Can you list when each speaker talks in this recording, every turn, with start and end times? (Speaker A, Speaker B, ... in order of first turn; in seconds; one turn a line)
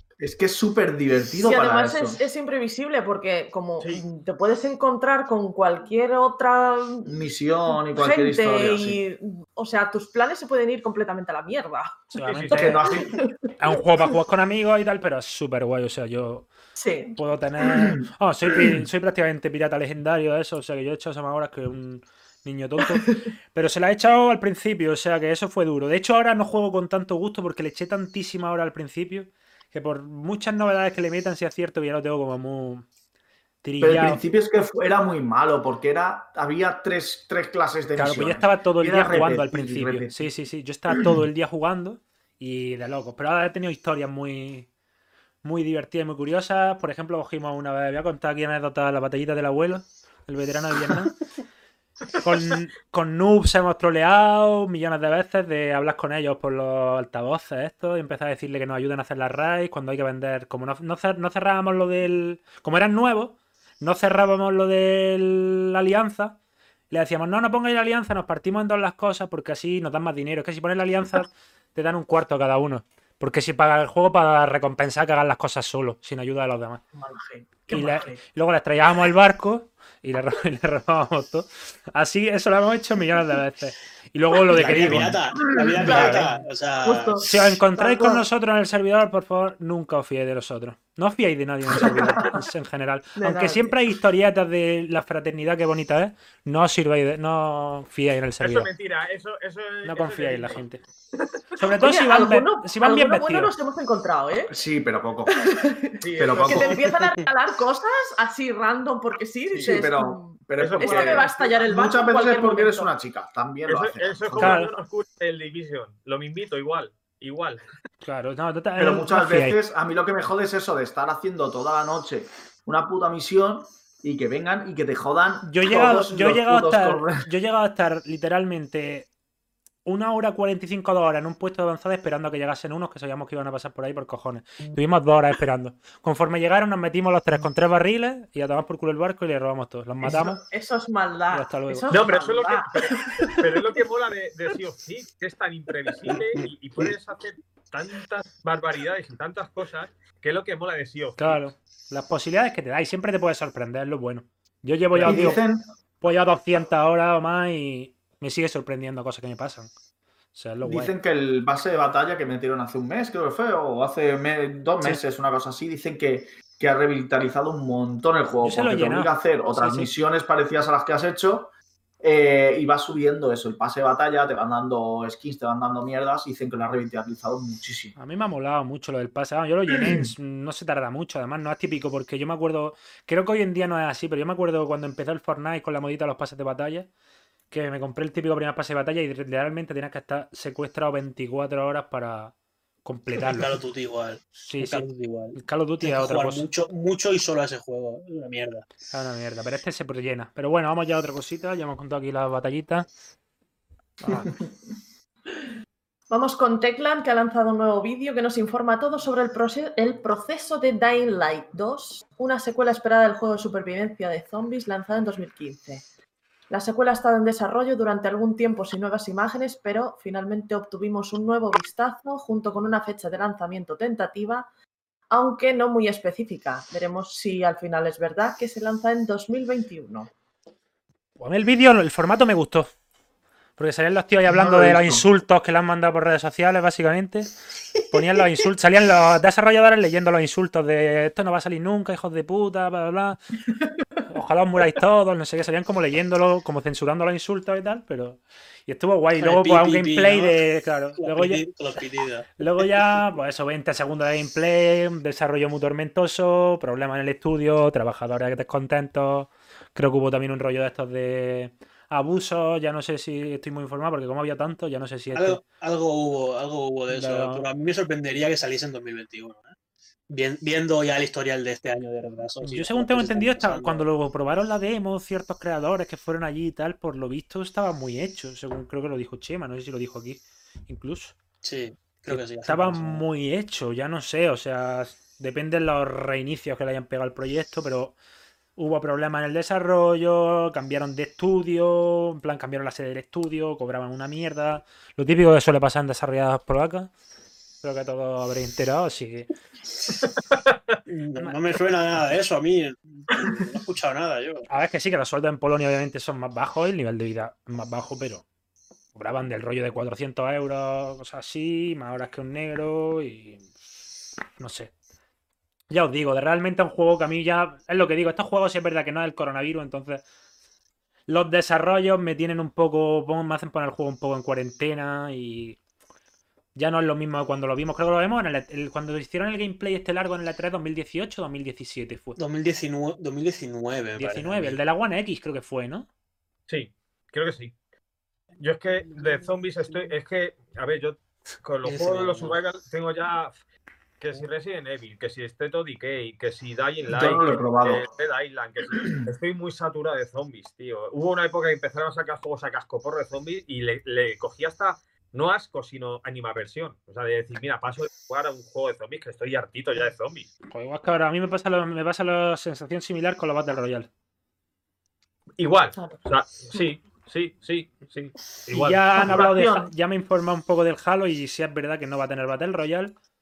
Speaker A: 0.2-2.2
Speaker B: 1.4-7.1
Speaker A: 7.0-9.0
Speaker B: 7.9-13.5
Speaker C: 12.1-12.8
Speaker D: 12.3-12.8
Speaker A: 12.5-13.1
Speaker C: 13.6-16.5
Speaker B: 16.8-17.2
Speaker C: 17.1-32.9
Speaker B: 22.8-23.3
Speaker C: 33.6-34.2
Speaker A: 33.8-40.3
Speaker C: 38.0-44.7
Speaker C: 45.4-51.2
Speaker C: 52.1-66.4
Speaker C: 66.9-76.8
Speaker B: 77.0-78.2
Speaker C: 77.7-85.2
Speaker E: 84.5-87.2
Speaker B: 85.5-88.2
Speaker C: 85.8-86.3
Speaker C: 87.2-98.7
Speaker B: 93.2-93.8
Speaker D: 98.4-100.6
Speaker C: 99.8-100.8
Speaker B: 101.2-104.5
Speaker C: 101.6-103.5
Speaker A: 104.5-105.6
Speaker B: 105.3-112.9
Speaker D: 106.0-106.8
Speaker A: 106.2-106.8
Speaker D: 109.5-109.8
Speaker A: 109.6-114.6
Speaker D: 110.6-111.6
Speaker D: 113.7-117.6
Speaker C: 114.4-114.7
Speaker C: 118.0-119.6
Speaker A: 118.8-127.3
Speaker C: 125.5-129.1
Speaker C: 129.8-140.4
Speaker B: 140.0-143.8
Speaker C: 141.3-142.1
Speaker D: 141.9-151.5
Speaker B: 146.1-146.5
Speaker C: 151.2-155.4
Speaker D: 154.9-155.3
Speaker A: 155.0-155.6
Speaker C: 156.0-159.7
Speaker C: 160.3-160.9
Speaker A: 160.6-177.9
Speaker C: 168.4-169.9
Speaker C: 178.0-186.9
Speaker A: 179.7-180.1
Speaker C: 187.5-192.3
Speaker C: 192.8-193.6
Speaker E: 193.2-198.7
Speaker C: 194.4-196.5
Speaker C: 198.9-202.9
Speaker C: 204.0-204.3
Speaker B: 206.1-215.8
Speaker B: 216.5-224.5
Speaker B: 225.1-230.1
Speaker C: 231.2-232.7
Speaker C: 233.6-243.2
Speaker A: 234.3-235.1
Speaker C: 244.1-251.4
Speaker E: 249.2-250.4
Speaker E: 251.0-252.4
Speaker C: 252.4-265.4
Speaker E: 265.1-269.6
Speaker C: 266.9-267.4
Speaker E: 270.1-273.9
Speaker C: 272.4-281.2
Speaker E: 281.4-283.0
Speaker C: 282.1-288.0
Speaker C: 288.6-296.9
Speaker C: 297.6-299.3
Speaker D: 300.5-300.8
Speaker E: 300.9-304.5
Speaker C: 304.5-308.2
Speaker C: 308.9-313.5
Speaker C: 314.4-314.7
Speaker C: 315.7-320.0
Speaker C: 321.1-325.6
Speaker C: 326.6-332.2
Speaker E: 332.2-334.6
Speaker C: 334.0-335.9
Speaker D: 336.5-337.6
Speaker D: 338.4-343.4
Speaker E: 341.6-342.4
Speaker D: 344.0-360.3
Speaker A: 346.9-347.9
Speaker C: 360.5-363.9
Speaker D: 365.4-369.3
Speaker B: 365.7-366.7
Speaker C: 368.5-372.9
Speaker A: 369.0-369.7